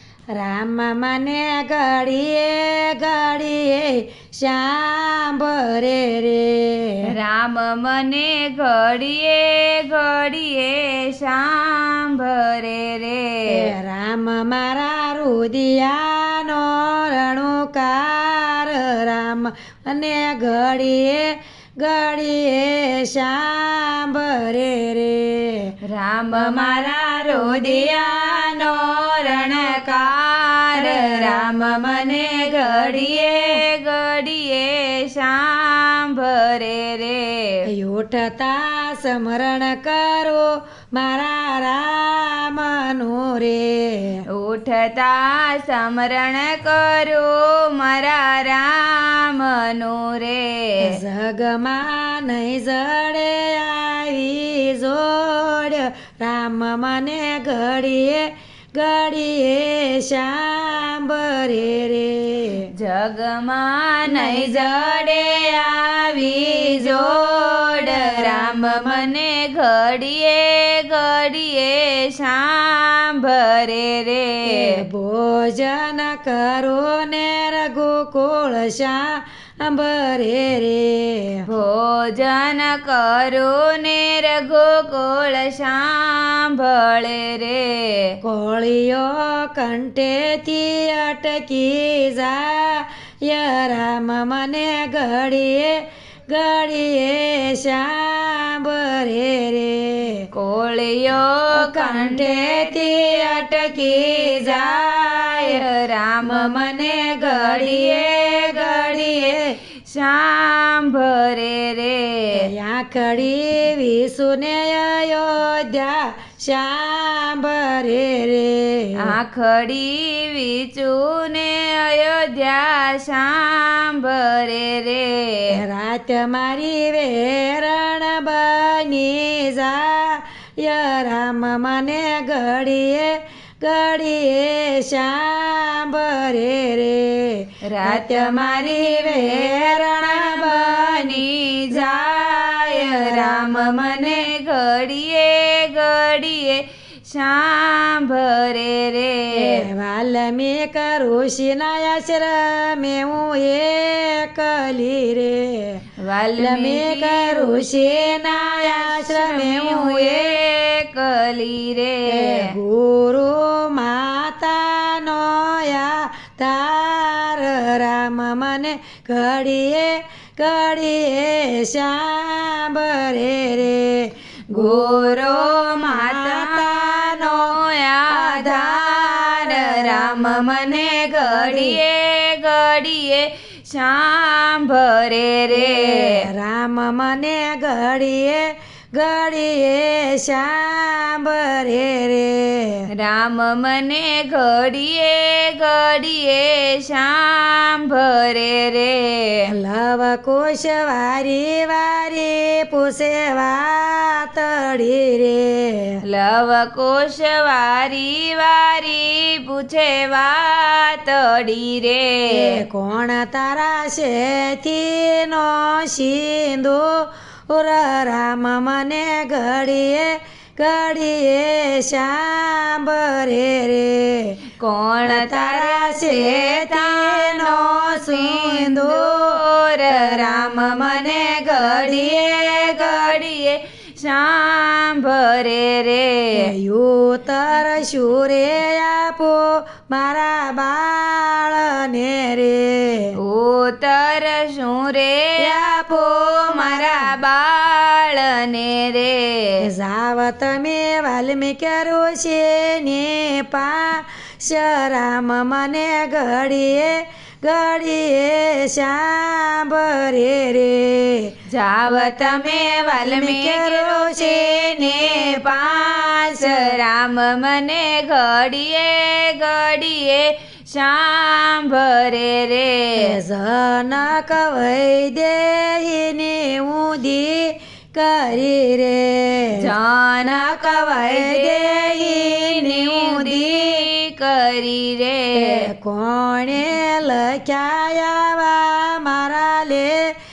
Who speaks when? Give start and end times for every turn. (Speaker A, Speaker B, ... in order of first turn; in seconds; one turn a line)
Speaker A: 0.4-7.0
Speaker B: 7.1-13.7
Speaker A: 13.5-25.7
Speaker B: 25.8-37.6
Speaker A: 26.3-26.6
Speaker A: 27.4-27.9
Speaker A: 30.8-31.4
Speaker A: 37.7-44.2
Speaker B: 44.3-50.9
Speaker A: 50.8-62.7
Speaker B: 62.7-74.8
Speaker A: 64.1-64.9
Speaker A: 66.7-68.5
Speaker A: 74.5-81.4
Speaker B: 81.5-88.1
Speaker A: 88.2-100.2
Speaker B: 100.3-102.7
Speaker A: 101.5-105.6
Speaker B: 105.3-112.4
Speaker A: 106.2-109.5
Speaker A: 112.4-119.1
Speaker B: 119.0-125.5
Speaker A: 125.5-144.1
Speaker B: 137.7-149.7
Speaker A: 149.3-155.8
Speaker B: 156.0-157.7
Speaker A: 156.4-160.4
Speaker B: 158.2-162.5
Speaker A: 162.1-177.6
Speaker B: 174.5-186.2
Speaker A: 178.1-180.5
Speaker A: 181.2-181.8
Speaker A: 185.5-192.9
Speaker B: 193.0-199.5
Speaker A: 199.5-206.0
Speaker B: 206.1-212.6
Speaker A: 212.3-224.4
Speaker B: 224.6-236.4
Speaker A: 225.1-229.4
Speaker A: 229.9-232.0
Speaker A: 236.3-243.1
Speaker B: 243.2-249.6
Speaker A: 245.4-247.1
Speaker A: 249.6-261.3
Speaker B: 261.5-273.2
Speaker A: 262.9-266.7
Speaker A: 273.0-279.5
Speaker B: 279.6-285.6
Speaker A: 280.8-283.9
Speaker A: 285.4-290.1